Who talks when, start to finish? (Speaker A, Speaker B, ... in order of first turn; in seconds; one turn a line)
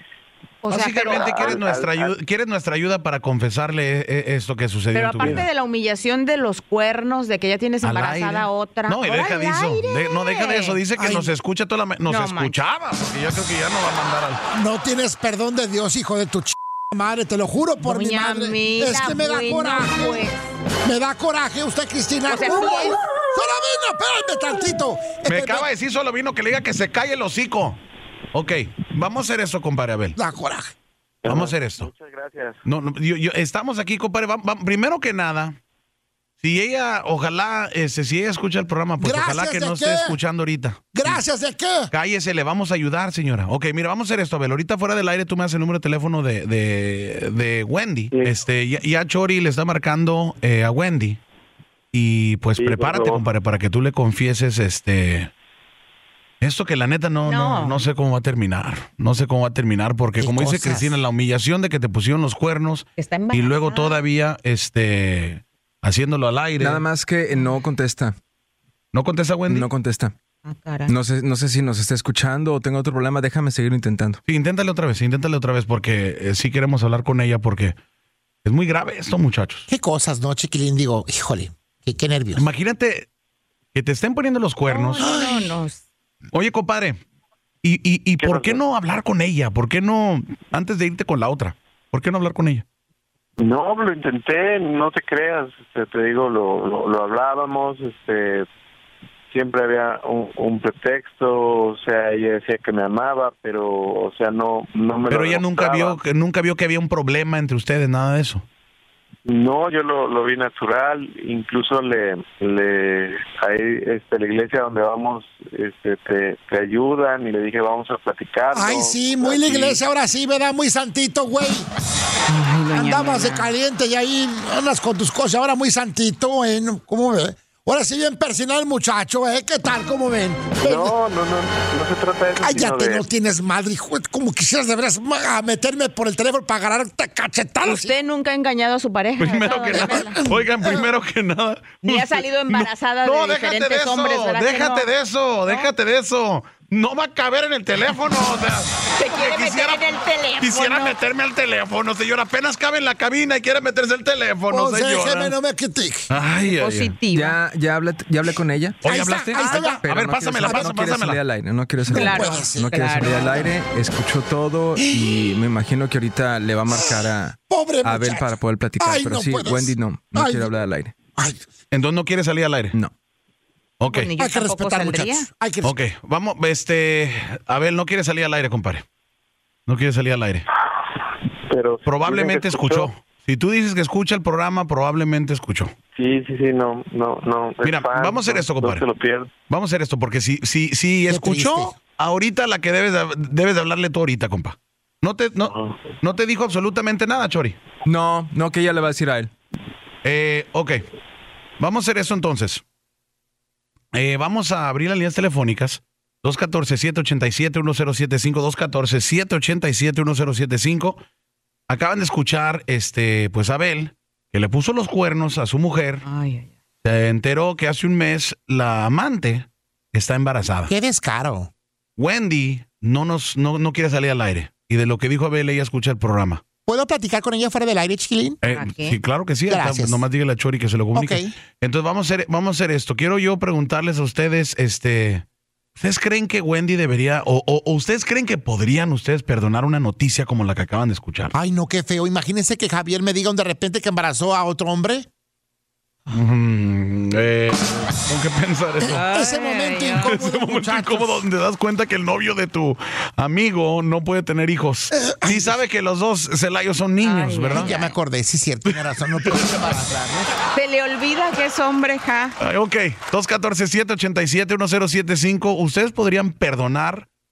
Speaker A: 0.6-1.5
Speaker B: 0.7-5.5
Speaker C: 0.8-2.1
Speaker A: 4.9-10.8
Speaker B: 7.8-14.4
Speaker D: 10.9-11.3
Speaker A: 12.1-12.6
Speaker D: 14.5-20.2
Speaker A: 17.8-20.4
Speaker D: 20.8-25.7
Speaker A: 22.3-23.0
Speaker B: 25.2-27.8
Speaker B: 28.3-30.2
Speaker D: 30.1-30.7
Speaker C: 31.2-32.6
Speaker B: 31.2-31.9
Speaker B: 32.6-35.6
Speaker B: 36.4-41.2
Speaker D: 39.0-40.2
Speaker D: 40.9-41.9
Speaker B: 41.9-51.2
Speaker C: 48.1-48.4
Speaker B: 51.9-55.3
Speaker C: 52.6-53.3
Speaker B: 56.4-66.8
Speaker A: 57.2-57.8
Speaker D: 60.2-61.0
Speaker A: 63.0-64.0
Speaker E: 66.6-68.1
Speaker B: 68.9-69.7
Speaker E: 69.5-70.1
Speaker A: 70.5-70.9
Speaker E: 70.9-74.2
Speaker B: 74.3-77.8
Speaker B: 78.4-79.7
Speaker D: 79.7-82.4
Speaker B: 82.3-83.1
Speaker B: 83.7-85.1
Speaker A: 84.7-85.8
Speaker D: 85.0-85.6
Speaker B: 86.3-87.0
Speaker B: 87.6-92.6
Speaker C: 88.2-88.6
Speaker C: 93.4-98.5
Speaker C: 99.3-106.0
Speaker B: 105.1-108.4
Speaker C: 109.2-119.8
Speaker D: 118.5-121.7
Speaker A: 122.3-123.5
Speaker D: 122.7-130.9
Speaker C: 130.6-133.1
Speaker D: 132.4-137.9
Speaker A: 137.6-140.2
Speaker B: 139.2-155.4
Speaker D: 139.7-140.8
Speaker A: 141.8-144.9
Speaker A: 145.4-145.7
Speaker A: 148.9-151.0
Speaker D: 154.5-156.1
Speaker B: 156.1-157.0
Speaker A: 156.5-157.4
Speaker E: 157.1-170.9
Speaker B: 158.8-161.2
Speaker D: 158.8-159.8
Speaker D: 160.4-160.7
Speaker D: 161.8-162.8
Speaker A: 161.9-163.5
Speaker D: 164.8-165.4
Speaker D: 166.7-170.5
Speaker D: 171.2-171.4
Speaker B: 171.7-172.7
Speaker B: 173.8-174.1
Speaker A: 173.9-175.3
Speaker D: 174.2-175.8
Speaker B: 175.6-178.8
Speaker B: 179.7-180.4
Speaker C: 181.5-182.9
Speaker B: 181.8-185.7
Speaker C: 185.9-189.3
Speaker B: 187.6-188.8
Speaker B: 189.5-197.6
Speaker D: 191.1-191.8
Speaker C: 195.4-195.8
Speaker E: 197.8-199.3
Speaker B: 200.0-200.8
Speaker B: 201.6-202.6
Speaker B: 203.9-211.0
Speaker B: 211.7-216.0
Speaker A: 216.0-216.5
Speaker B: 216.8-220.7
Speaker D: 220.7-221.5
Speaker B: 222.0-226.4
Speaker D: 226.7-228.4
Speaker B: 228.4-235.2
Speaker A: 228.4-229.0
Speaker D: 229.5-230.1
Speaker D: 230.9-231.3
Speaker B: 235.8-241.3
Speaker D: 241.3-245.1
Speaker B: 246.1-249.2
Speaker D: 248.8-251.2
Speaker A: 248.9-250.2
Speaker B: 250.0-257.8
Speaker D: 254.9-255.6
Speaker A: 257.0-257.9
Speaker D: 257.5-260.3
Speaker B: 258.7-259.7
Speaker A: 260.5-262.4
Speaker B: 262.4-267.1